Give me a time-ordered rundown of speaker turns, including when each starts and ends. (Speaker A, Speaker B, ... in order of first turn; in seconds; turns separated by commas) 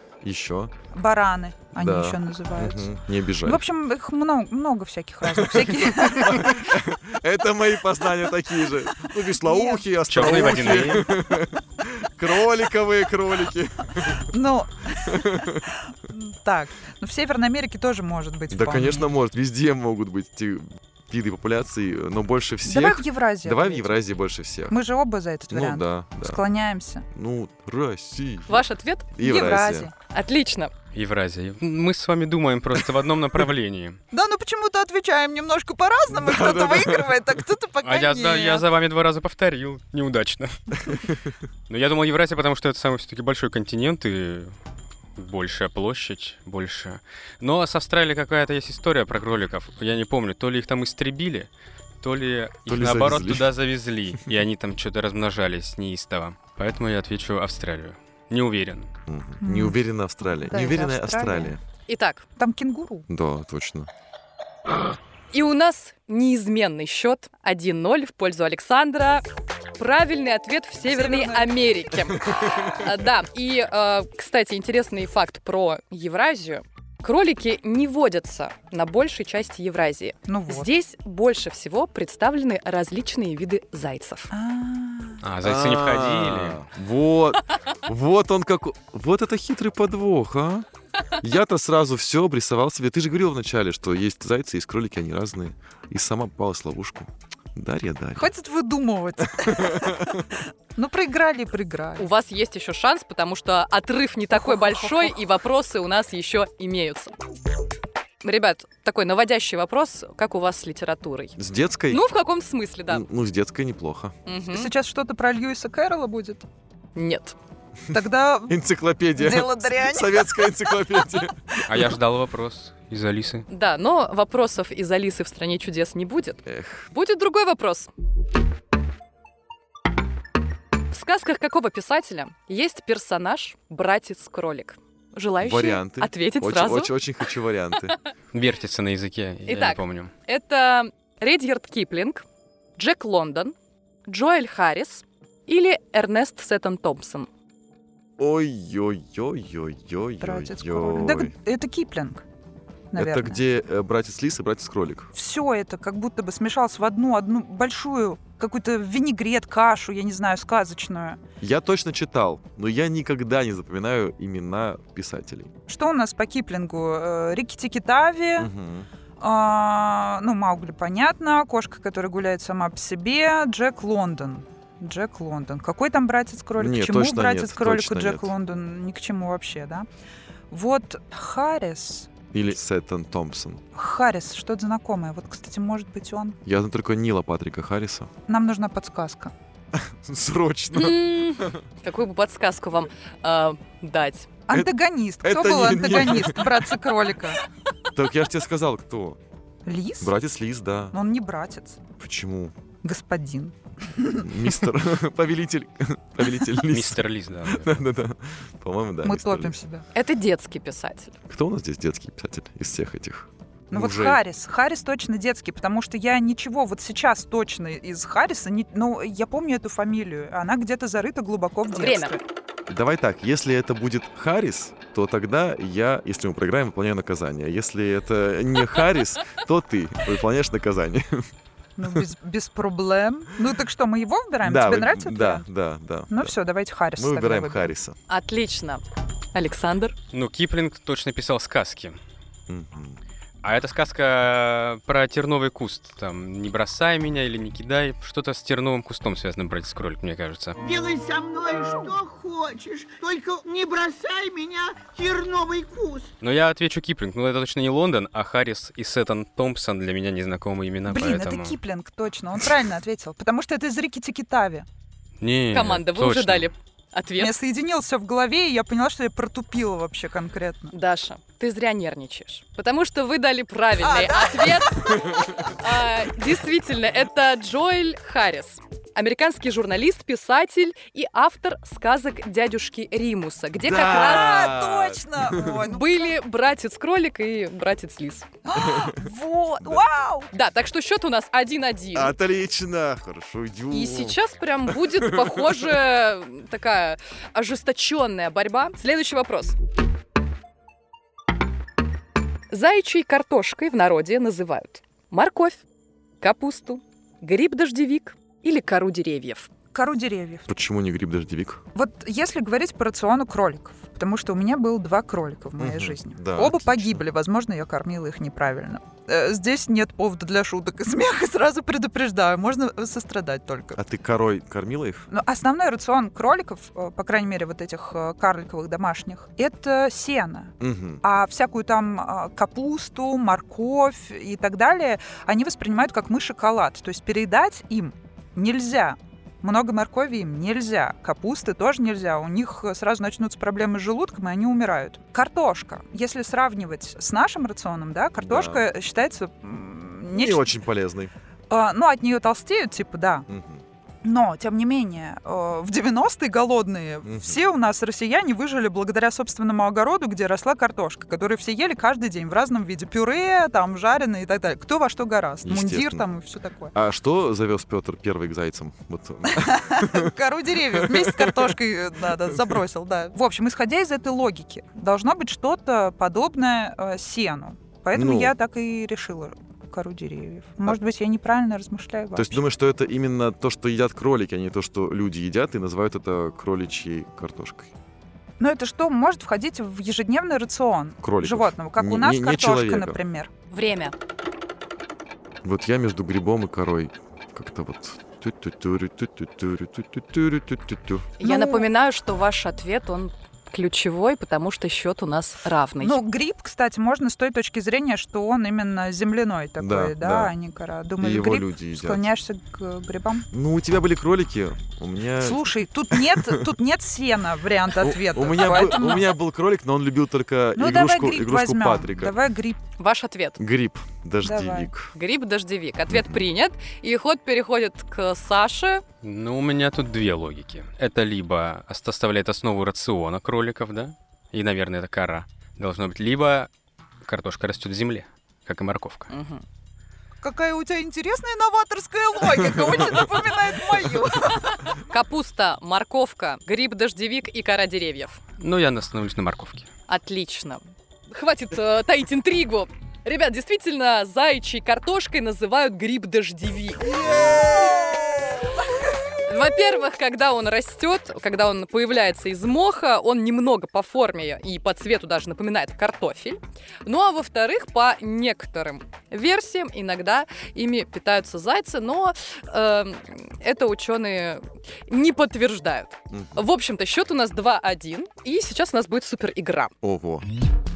Speaker A: 0.2-0.7, Speaker B: 0.9-2.9, Speaker A: 1.7-3.6, Speaker B: 3.4-6.8, Speaker A: 5.2-14.2, Speaker B: 9.2-10.7, Speaker C: 10.1-11.0, Speaker B: 14.3-19.1, Speaker A: 15.1-15.5, Speaker A: 18.5-24.8, Speaker B: 22.6-24.0, Speaker B: 24.7-27.1, Speaker A: 25.5-26.4, Speaker A: 27.1-29.9, Speaker D: 28.5-29.1, Speaker B: 29.2-29.9, Speaker D: 30.1-30.7, Speaker C: 30.9-34.0, Speaker B: 34.1-38.7, Speaker A: 36.1-37.4, Speaker C: 37.8-40.9, Speaker A: 40.9-41.3, Speaker C: 41.7-44.5, Speaker C: 45.1-51.5, Speaker C: 52.0-58.9, Speaker A: 52.7-53.5, Speaker A: 59.1-61.6, Speaker B: 59.4-61.6, Speaker D: 61.9-62.2, Speaker B: 62.4-63.1, Speaker A: 63.1-63.9, Speaker D: 65.3-69.2, Speaker D: 69.8-84.3, Speaker B: 70.8-71.7, Speaker B: 80.3-80.7, Speaker B: 84.3-85.2, Speaker C: 85.2-86.6, Speaker A: 85.4-98.3, Speaker B: 98.2-100.2, Speaker A: 99.4-100.1, Speaker B: 100.8-102.1, Speaker D: 102.0-107.1, Speaker B: 104.3-105.3, Speaker D: 108.2-111.3, Speaker A: 111.4-112.0, Speaker D: 111.9-113.0, Speaker A: 112.9-114.1, Speaker D: 114.2-114.7, Speaker B: 114.5-116.4, Speaker D: 116.9-117.3, Speaker B: 117.9-118.6, Speaker A: 118.5-121.6, Speaker B: 119.2-121.6, Speaker C: 121.7-123.5, Speaker D: 123.5-127.9, Speaker A: 126.5-126.9, Speaker D: 130.9-136.9, Speaker A: 135.4-138.0, Speaker D: 137.8-138.1, Speaker C: 138.3-140.1, Speaker D: 139.4-142.2, Speaker D: 142.8-143.5, Speaker D: 144.1-147.3, Speaker A: 148.2-151.3, Speaker B: 150.2-152.2, Speaker B: 152.9-153.4, Speaker A: 152.9-155.1, Speaker B: 155.1-161.2, Speaker A: 161.4-165.5, Speaker B: 165.7-168.5, Speaker A: 168.4-168.9, Speaker B: 169.2-179.8, Speaker A: 176.6-178.3, Speaker B: 180.5-182.1, Speaker A: 182.3-183.6, Speaker B: 183.7-186.4, Speaker A: 186.4-188.1, Speaker B: 188.3-189.3, Speaker A: 189.7-191.6, Speaker D: 190.7-194.3, Speaker B: 194.5-197.4, Speaker A: 195.2-196.7, Speaker A: 197.9-199.2, Speaker B: 199.7-200.1, Speaker A: 200.0-200.9, Speaker B: 200.9-201.8, Speaker A: 202.0-202.5, Speaker B: 202.8-204.6, Speaker A: 204.2-209.6, Speaker C: 206.7-207.8, Speaker B: 209.0-209.8, Speaker D: 209.9-211.1, Speaker A: 211.3-214.2, Speaker B: 213.7-222.2, Speaker D: 221.7-222.2, Speaker A: 222.7-231.3, Speaker B: 231.8-235.4, Speaker A: 234.4-236.3, Speaker B: 236.1-237.7, Speaker A: 236.9-237.9, Speaker D: 238.1-238.8, Speaker D: 239.3-239.9, Speaker C: 240.1-241.9, Speaker A: 242.5-243.0, Speaker C: 243.4-250.6, Speaker E: 250.6-256.1, Speaker C: 256.2-261.6, Speaker B: 260.9-264.6, Speaker C: 265.2-266.5, Speaker D: 265.5-267.3, Speaker B: 267.2-270.7, Speaker D: 270.7-284.5, Speaker B: 273.8-275.0, Speaker A: 283.6-285.6, Speaker B: 283.7-286.1, Speaker D: 285.4-288.3, Speaker B: 288.4-290.3, Speaker A: 288.5-289.0, Speaker D: 290.3-292.1, Speaker A: 291.9-295.7, Speaker D: 293.7-299.6, Speaker D: 302.5-305.6, Speaker D: 306.2-309.5, Speaker B: 309.7-310.5, Speaker A: 310.5-311.6, Speaker B: 311.7-323.8, Speaker A: 315.6-317.0, Speaker A: 323.8-325.1, Speaker B: 325.1-350.5, Speaker A: 330.6-331.0, Speaker A: 348.2-348.6, Speaker A: 350.1-351.1, Speaker B: 351.5-353.3, Speaker A: 353.3-353.6, Speaker B: 354.0-366.7, Speaker A: 357.0-357.4, Speaker A: 365.4-366.1, Speaker A: 366.7-371.5, Speaker B: 369.3-382.4, Speaker A: 377.9-378.3, Speaker A: 382.1-387.7, Speaker B: 388.4-393.3, Speaker A: 391.0-393.0, Speaker D: 393.5-393.9, Speaker A: 395.4-401.1, Speaker D: 401.2-406.0, Speaker B: 401.2-401.7, Speaker B: 405.8-413.3, Speaker A: 409.6-410.3, Speaker A: 411.0-412.1, Speaker A: 413.3-416.4, Speaker B: 415.2-419.1, Speaker A: 417.8-422.1, Speaker B: 420.5-422.6, Speaker D: 422.8-423.4, Speaker A: 423.4-424.9, Speaker B: 424.2-424.7, Speaker D: 424.9-428.8, Speaker A: 425.9-426.2, Speaker C: 429.0-436.5, Speaker C: 437.0-439.1, Speaker D: 439.1-439.4, Speaker B: 440.2-444.7, Speaker D: 444.8-448.2, Speaker C: 448.4-449.7, Speaker D: 449.9-457.9, Speaker B: 456.9-458.4, Speaker D: 459.1-479.7, Speaker A: 476.1-476.4, Speaker A: 479.8-480.3